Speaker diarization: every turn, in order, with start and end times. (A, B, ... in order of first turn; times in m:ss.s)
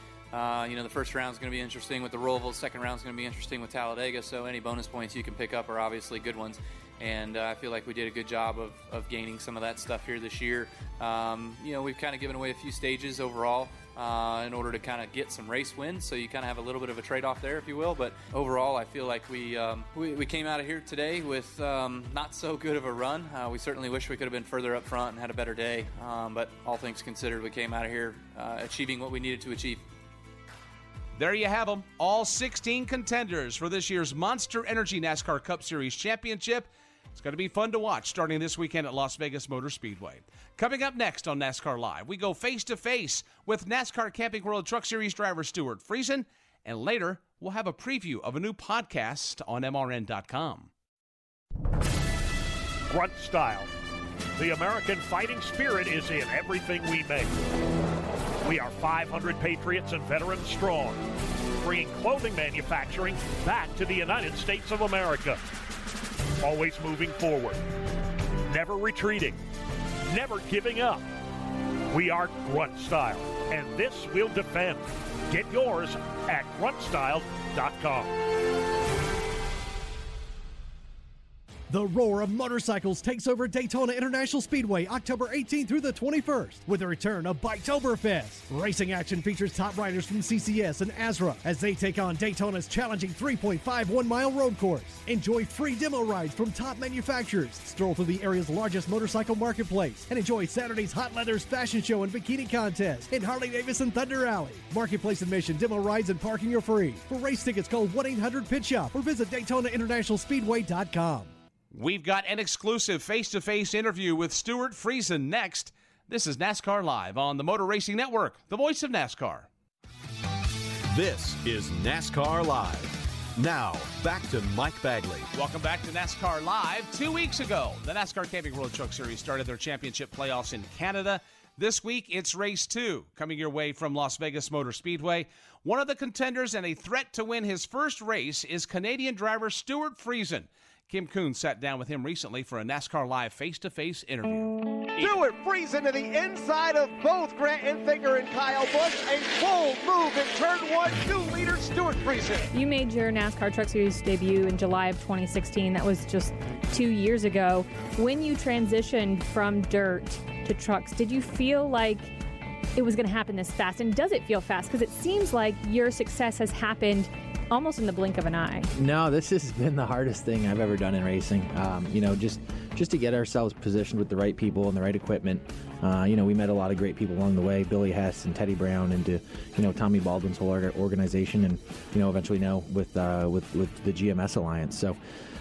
0:00.3-0:29.8 A
0:31.2-0:50.7 B
0:52.9-0:53.7 C
0:54.4-0:57.3 C
0:58.4-1:01.0 C
1:01.6-1:05.4 C
1:06.4-1:07.6 C
1:08.5-1:09.4 C
1:10.1-1:11.0 C
1:11.9-1:18.1 C
1:21.7-1:51.3 D
1:51.7-1:59.5 B
2:00.9-2:05.3 E
2:05.3-2:25.1 B
2:25.0-2:32.4 F
2:32.5-2:42.1 G
2:42.8-2:48.7 G
2:48.7-3:05.0 H